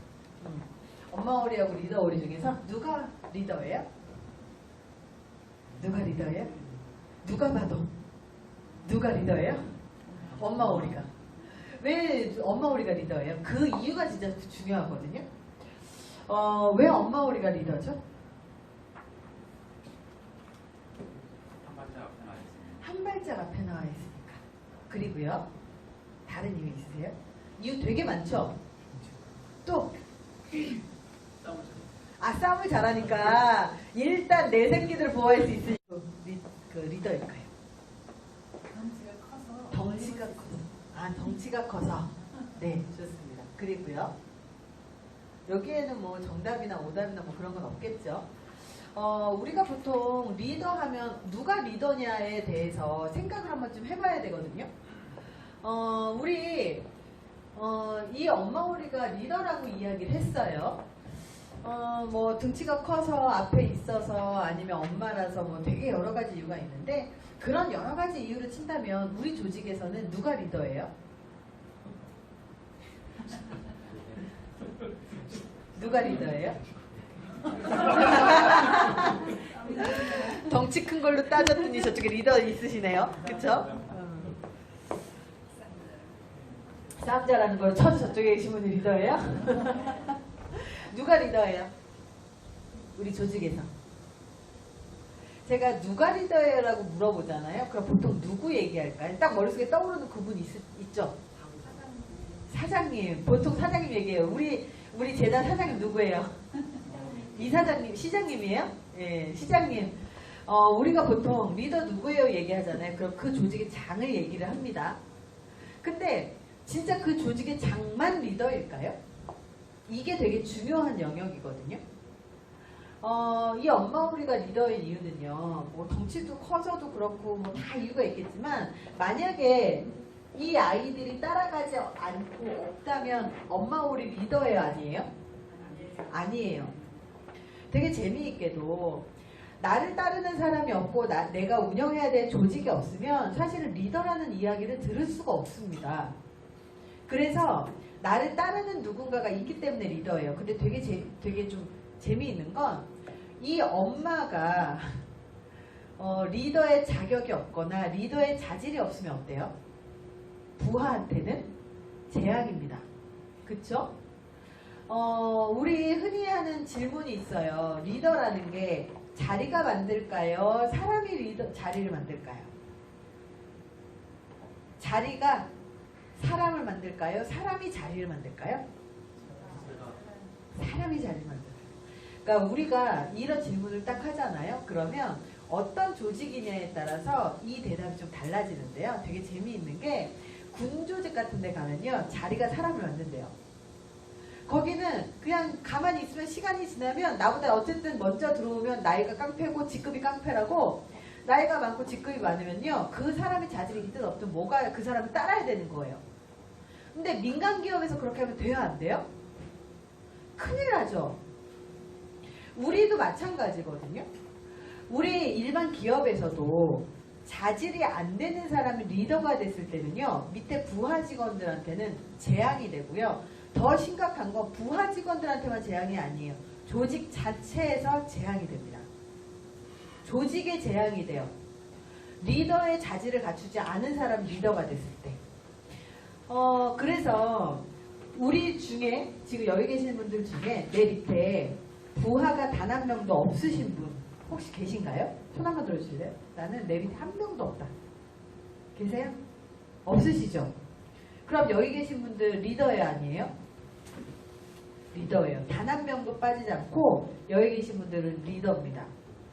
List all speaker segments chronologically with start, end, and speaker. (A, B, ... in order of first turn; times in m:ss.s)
0:00.4-0:03.9 A
0:05.8-0:06.6 A
0:07.2-0:07.9 A
0:08.8-0:15.2 A
0:16.2-0:18.0 A
0:21.4-0:22.8 B
0:22.8-0:25.5 A
0:26.2-0:28.6 A
0:29.6-0:29.9 A
0:31.4-0:31.8 B
0:32.2-0:37.5 A
0:38.7-0:39.7 B
0:39.6-0:44.1 A
0:45.5-0:54.7 A
0:55.6-0:56.9 A
0:57.5-1:00.8 A
1:01.6-1:10.9 A
1:15.7-1:16.6 A
1:17.7-1:24.4 A
1:26.9-1:31.7 A
1:32.9-1:33.7 A
1:35.4-1:41.2 A
1:41.6-1:42.3 B
1:42.4-1:55.0 A
1:55.8-1:59.0 A
1:59.9-2:01.8 A
2:03.0-2:15.1 A
2:15.9-2:16.8 A
2:17.7-2:19.1 A
2:19.6-2:26.1 A
2:27.1-2:32.9 A
2:33.4-2:35.0 A
2:36.0-2:39.5 A
2:40.6-2:41.5 A
2:42.1-2:42.8 A
2:43.4-2:43.9 A
2:44.9-2:52.5 A
2:54.8-2:55.5 A
2:56.1-2:58.6 A
2:59.3-3:00.1 B
3:00.5-3:01.7 A
3:02.2-3:13.3 A
3:14.5-3:26.0 A
3:26.9-3:29.1 A
3:30.4-3:31.2 A
3:32.5-3:34.0 A
3:34.9-3:48.9 A
3:50.0-3:51.3 A
3:52.2-3:55.2 A
3:56.3-4:07.7 A
4:08.7-4:09.2 A
4:09.8-4:10.5 A
4:11.2-4:13.3 A
4:14.9-4:18.9 A